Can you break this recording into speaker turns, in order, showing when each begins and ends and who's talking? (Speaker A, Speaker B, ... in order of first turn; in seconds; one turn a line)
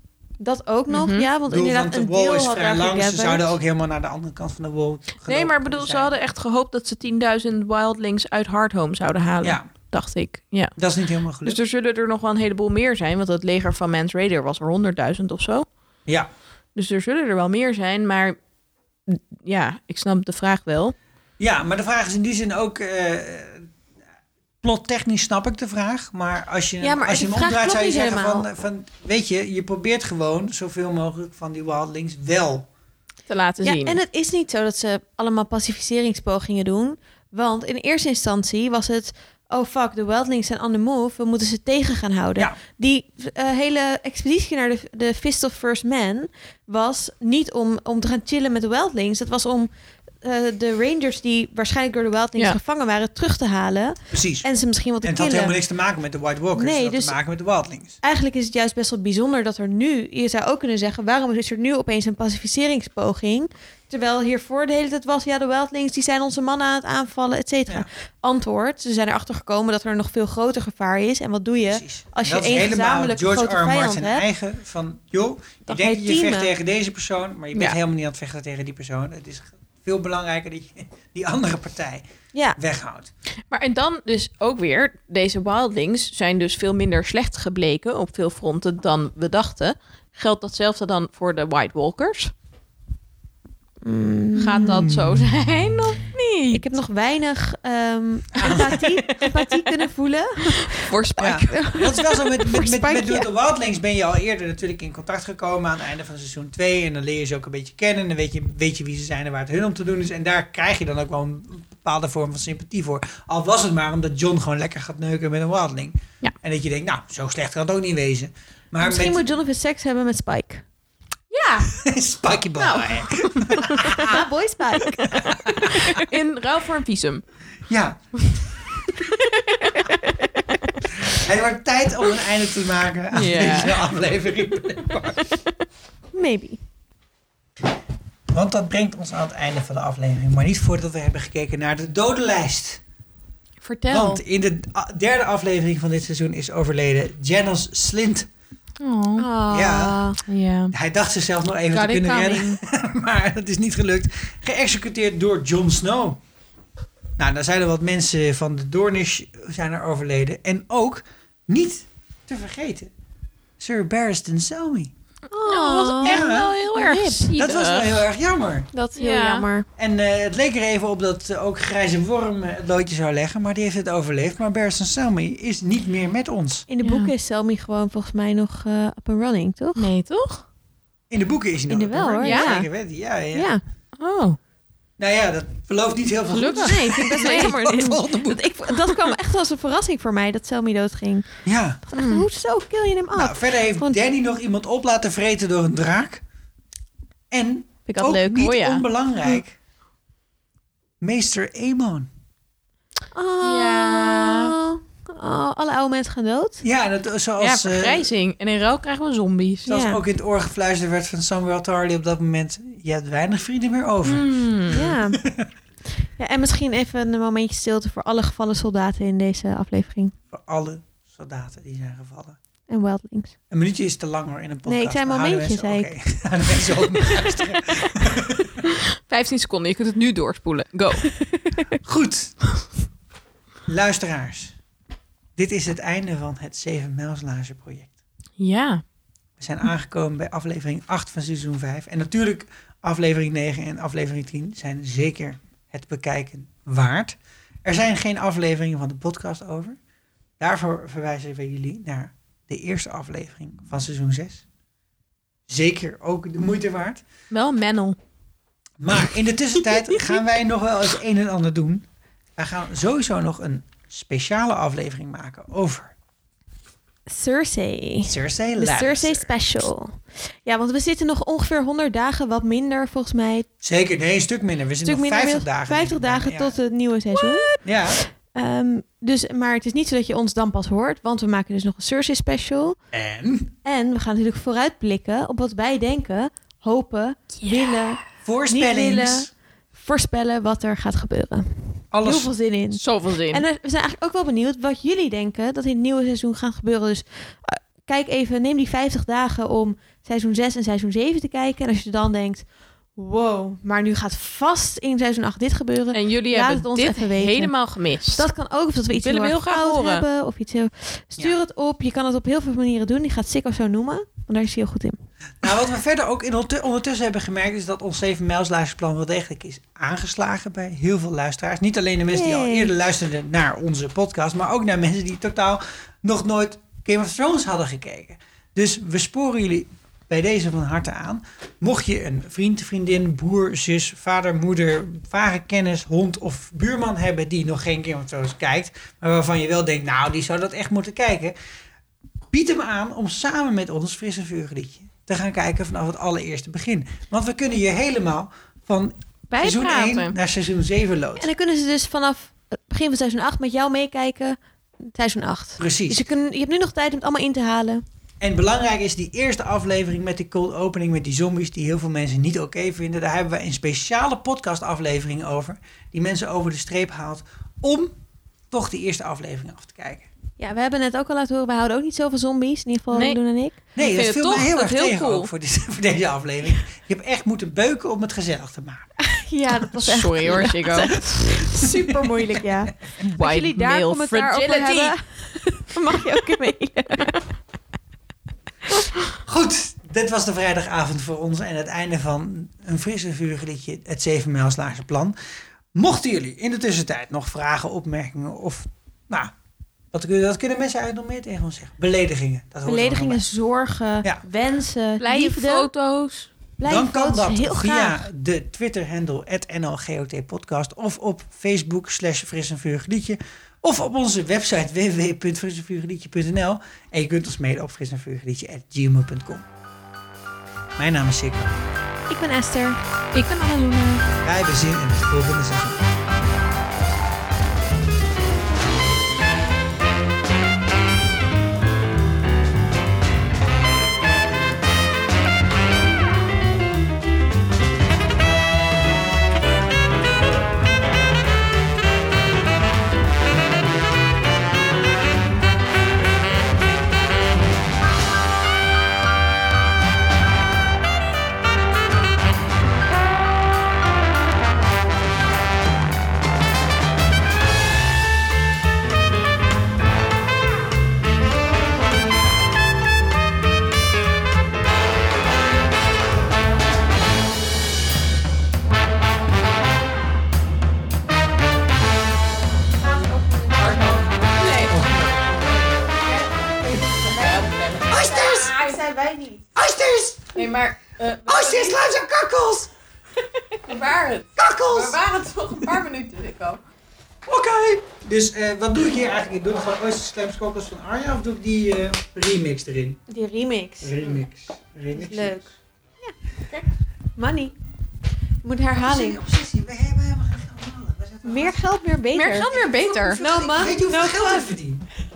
Speaker A: 0.4-3.5
Speaker B: 0.9-1.3
Speaker C: 1.5-6.1
Speaker B: 5.2-10.7
Speaker C: 10.8-11.6
Speaker B: 11.4-15.7
Speaker B: 16.8-18.4
Speaker B: 19.1-20.9
Speaker C: 21.4-23.7
Speaker C: 24.6-32.7
Speaker A: 26.8-28.5
Speaker B: 33.3-34.0
Speaker A: 33.6-49.7
Speaker A: 50.2-55.6
Speaker C: 54.1-54.5
Speaker C: 55.0-58.0
Speaker A: 56.5-57.2
Speaker A: 58.0-74.2
Speaker C: 71.7-83.1
Speaker A: 75.7-76.5
Speaker A: 82.3-82.6
Speaker B: 83.5-92.3
Speaker A: 93.8-94.8
Speaker B: 94.4-96.8
Speaker C: 94.8-95.0
Speaker A: 96.5-103.3
Speaker C: 98.3-98.8
Speaker B: 98.8-99.8
Speaker B: 100.6-101.5
Speaker C: 101.2-119.3
Speaker A: 118.8-120.7
Speaker B: 121.3-121.7
Speaker C: 121.7-124.2
Speaker B: 122.6-123.9
Speaker A: 123.8-126.0
Speaker C: 125.0-125.8
Speaker B: 125.7-127.2
Speaker C: 127.7-128.0
Speaker B: 129.0-130.1
Speaker C: 130.9-135.2
Speaker B: 133.1-133.9
Speaker A: 136.1-136.6
Speaker C: 138.3-142.8
Speaker B: 143.6-144.2
Speaker C: 143.9-148.3
Speaker B: 148.8-149.3
Speaker A: 149.2-150.2
Speaker C: 149.5-150.0
Speaker B: 150.3-150.7
Speaker C: 150.7-156.2
Speaker B: 151.7-152.6
Speaker C: 157.2-162.9
Speaker C: 163.6-164.9
Speaker A: 165.3-167.3
Speaker B: 165.3-168.0
Speaker C: 166.0-166.5
Speaker C: 167.4-168.7
Speaker A: 168.7-169.7
Speaker B: 168.9-169.5
Speaker C: 169.8-176.7
Speaker A: 176.7-179.9
Speaker B: 176.8-177.1
Speaker B: 179.8-180.4
Speaker C: 181.1-183.5
Speaker A: 181.7-182.7
Speaker B: 182.2-182.5
Speaker A: 183.3-183.6
Speaker B: 184.0-184.4
Speaker C: 185.0-188.8
Speaker B: 186.3-187.6
Speaker A: 186.6-191.3
Speaker C: 191.5-191.8
Speaker A: 191.9-194.0
Speaker B: 191.9-192.3
Speaker C: 193.2-196.2
Speaker C: 197.3-199.6
Speaker A: 197.9-198.7
Speaker B: 198.3-198.8
Speaker C: 201.0-202.1
Speaker A: 203.1-206.6
Speaker B: 203.4-204.5
Speaker C: 206.6-208.1
Speaker B: 207.4-209.7
Speaker C: 209.7-215.5
Speaker A: 209.7-210.0
Speaker B: 214.1-214.9
Speaker A: 214.7-215.2
Speaker A: 216.2-220.1
Speaker C: 220.3-222.4
Speaker A: 222.7-223.3
Speaker C: 223.5-228.6
Speaker A: 224.7-225.9
Speaker A: 226.5-227.3
Speaker B: 229.1-231.1
Speaker C: 231.8-232.4
Speaker C: 233.7-234.6
Speaker C: 235.4-237.9
Speaker B: 238.4-238.8
Speaker C: 239.4-249.8
Speaker C: 250.4-254.4
Speaker C: 255.5-257.0
Speaker B: 257.3-258.0
Speaker C: 258.8-261.9
Speaker C: 262.4-265.9
Speaker A: 267.1-273.5
Speaker C: 268.0-269.3
Speaker C: 273.6-276.6
Speaker A: 274.8-282.8
Speaker B: 277.2-277.5
Speaker C: 277.6-278.0
Speaker C: 282.9-283.5
Speaker A: 283.6-302.4
Speaker C: 288.2-289.3
Speaker C: 291.9-292.3
Speaker B: 292.7-293.4
Speaker A: 303.0-307.5
Speaker B: 305.9-308.3
Speaker A: 308.1-315.0
Speaker B: 309.0-310.1
Speaker C: 315.4-341.4
Speaker A: 322.1-322.7
Speaker C: 342.3-351.3
Speaker B: 349.3-350.1
Speaker A: 351.2-357.8
Speaker C: 355.6-356.0
Speaker C: 358.2-367.9
Speaker C: 368.5-370.1
Speaker A: 370.4-373.6
Speaker B: 372.9-373.2
Speaker C: 373.8-379.0
Speaker B: 373.8-375.3
Speaker A: 379.0-387.2
Speaker C: 379.8-381.9
Speaker B: 379.8-381.1
Speaker B: 383.1-385.0
Speaker C: 389.2-395.2
Speaker C: 395.8-399.3
Speaker C: 399.9-403.3
Speaker A: 402.6-405.7
Speaker B: 405.0-406.3
Speaker A: 406.6-408.0
Speaker C: 406.7-419.4
Speaker C: 420.8-421.6
Speaker A: 422.1-422.8
Speaker B: 423.1-424.0
Speaker C: 424.2-425.8
Speaker A: 472.7-474.0
Speaker B: 473.6-474.8
Speaker C: 474.7-475.9
Speaker B: 476.9-478.8
Speaker A: 477.0-479.5
Speaker C: 477.9-478.6
Speaker C: 479.6-480.4
Speaker B: 480.4-481.8
Speaker C: 481.3-482.7
Speaker B: 483.5-486.6
Speaker C: 484.4-485.0
Speaker C: 487.3-493.0
Speaker A: 493.1-494.2
Speaker C: 493.8-495.5
Speaker A: 494.9-495.5
Speaker A: 497.2-497.6
Speaker A: 498.4-499.2
Speaker C: 498.8-501.6
Speaker A: 501.2-502.5
Speaker B: 502.1-503.2
Speaker C: 502.5-504.8
Speaker A: 503.2-504.5